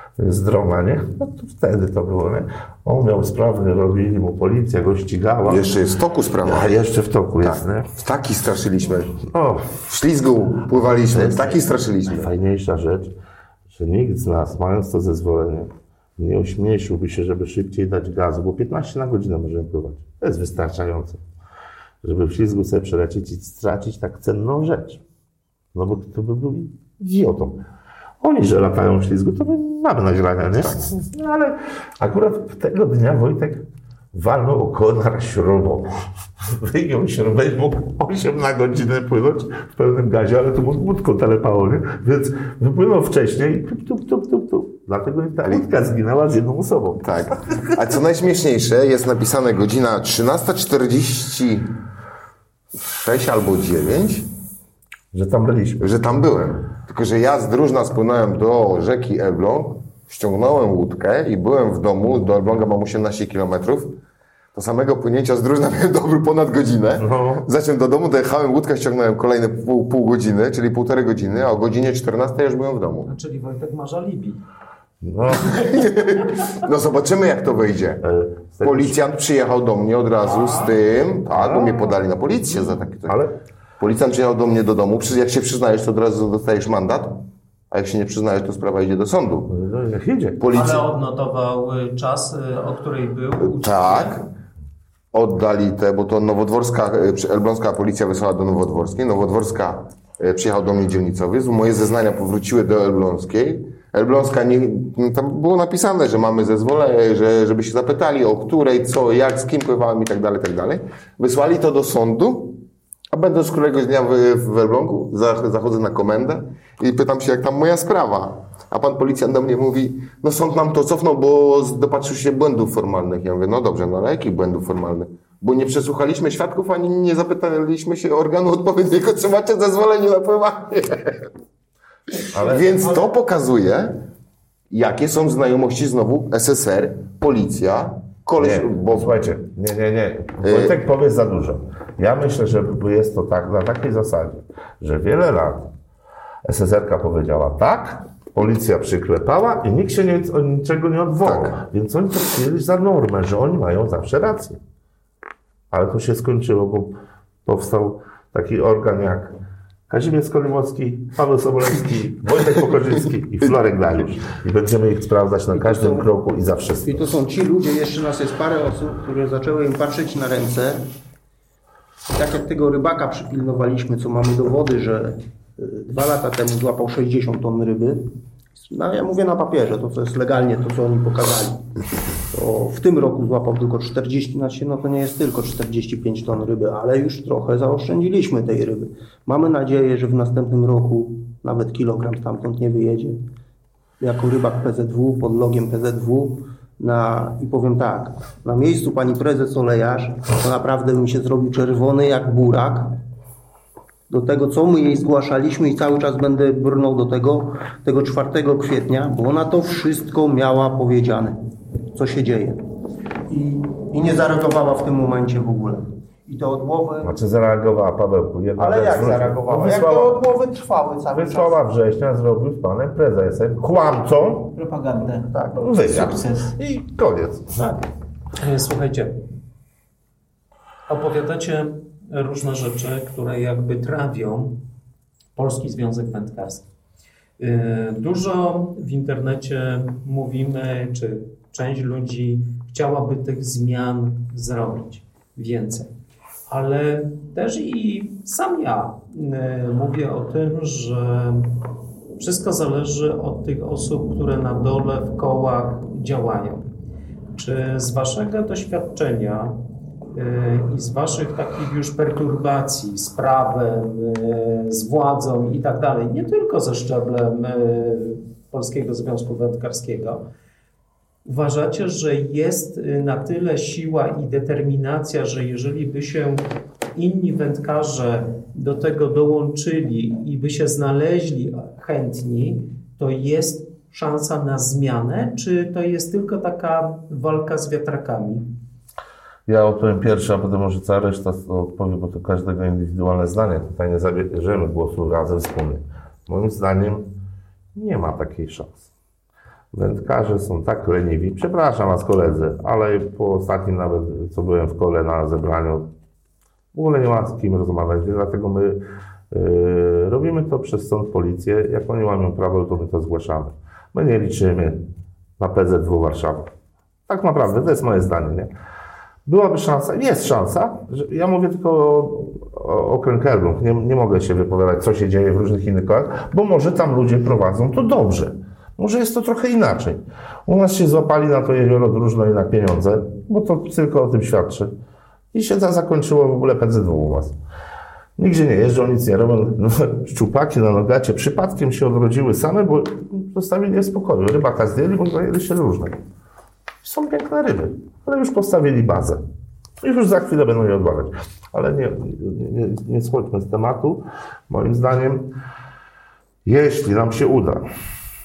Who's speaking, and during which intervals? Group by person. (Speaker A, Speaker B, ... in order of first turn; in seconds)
Speaker A: 0.2-5.7, 6.4-7.9, 9.2-9.8, 11.1-13.1, 13.7-21.2, 22.0-25.0, 25.7-27.6, 28.2-35.9, 36.4-48.0, 55.1-56.0, 67.0-67.5, 75.0-75.7, 78.0-79.0, 81.3-82.0, 83.0-83.3, 89.5-90.4, 132.3-132.8, 138.3-145.7, 146.4-154.6, 155.7-159.3, 159.9-167.1, 217.0-220.2, 221.1-224.6, 225.6-227.8, 289.5-297.1, 297.7-298.8, 299.7-305.9, 306.7-308.8, 309.3-314.8, 315.4-316.5, 317.1-318.5, 319.2-334.7, 335.3-337.4, 338.2-346.0, 346.8-349.2, 349.8-355.3, 356.4-357.6
Speaker B: 5.5-6.7, 7.4-9.2, 9.9-12.3, 47.0-51.7, 52.9-54.2, 55.8-64.0, 64.5-73.1, 75.4-78.0, 78.6-83.2, 83.8-89.5, 90.4-90.8, 93.4-94.2, 95.1-131.3, 132.3-134.0, 134.7-139.1, 140.4-140.7, 151.2-151.5
Speaker C: 73.0-74.4, 80.2-80.8, 90.5-94.2, 228.4-229.2, 230.9-234.6, 235.3-236.7, 237.4-245.9, 246.5-251.5, 252.2-256.7, 257.3-259.6, 260.1-270.2, 271.2-288.5
Speaker D: 165.5-166.1, 166.8-170.8, 172.1-178.1, 178.7-181.7, 182.3-193.2, 194.0-202.9, 204.1-211.4, 211.9-212.6, 213.3-217.1, 218.6-221.6, 225.3-225.7
Speaker E: 224.5-226.6